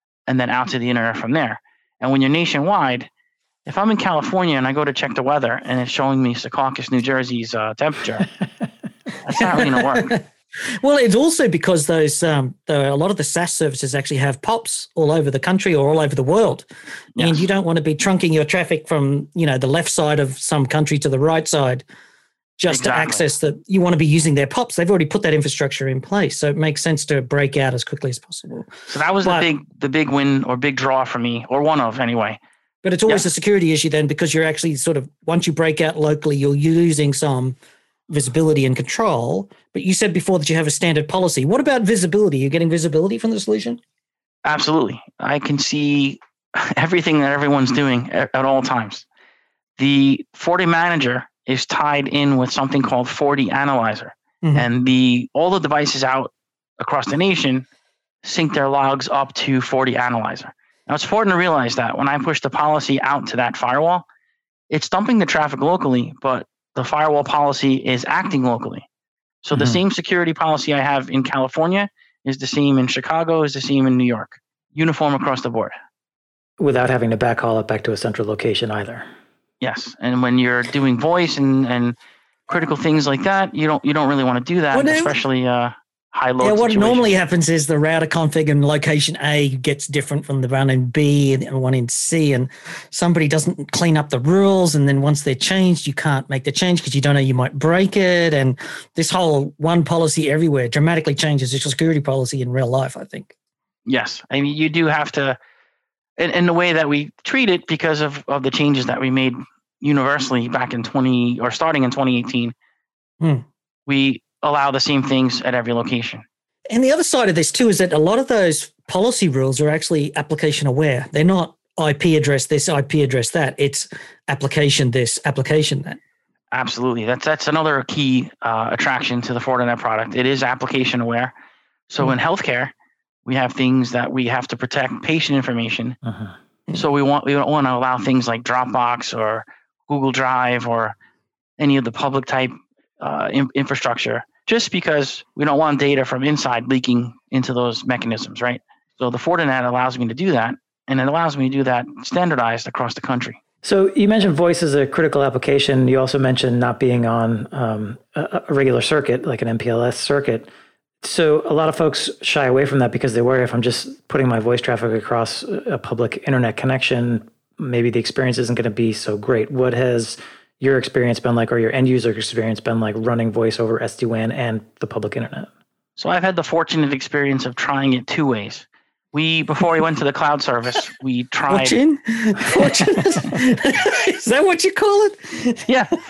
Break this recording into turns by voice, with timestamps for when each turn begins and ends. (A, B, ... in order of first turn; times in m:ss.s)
0:00.3-0:03.1 A
0:03.7-0:08.3 A
0:09.2-0:10.2 A
0:09.4-0:10.2 B
0:10.8-0:21.8 B
0:17.2-0:17.5 A
0:22.6-0:29.5 B
0:22.7-0:23.3 A
0:28.9-0:32.4 A
0:32.8-0:37.6 B
0:38.1-0:43.8 B
0:44.4-0:49.0 A
0:49.8-0:57.6 A
0:58.2-1:04.0 A
1:04.7-1:08.9 A
1:09.4-1:15.7 A
1:09.5-1:09.8 C
1:16.6-1:19.1 C
1:19.6-1:22.0 A
1:22.5-1:27.2 A
1:24.7-1:25.1 B
1:26.4-1:43.3 B
1:43.9-1:45.4 A
1:46.2-1:52.5 A
1:53.9-1:56.2 A
1:56.7-2:06.0 B
2:06.5-2:11.3 A
2:11.9-2:12.7 A
2:13.3-2:16.0 A
2:16.0-2:16.3 C
2:16.7-2:21.0 A
2:21.6-2:33.4 A
2:33.6-2:40.5 C
2:41.0-2:55.5 C
2:56.0-3:01.8 A
3:01.5-3:05.7 B
3:05.7-3:05.9 A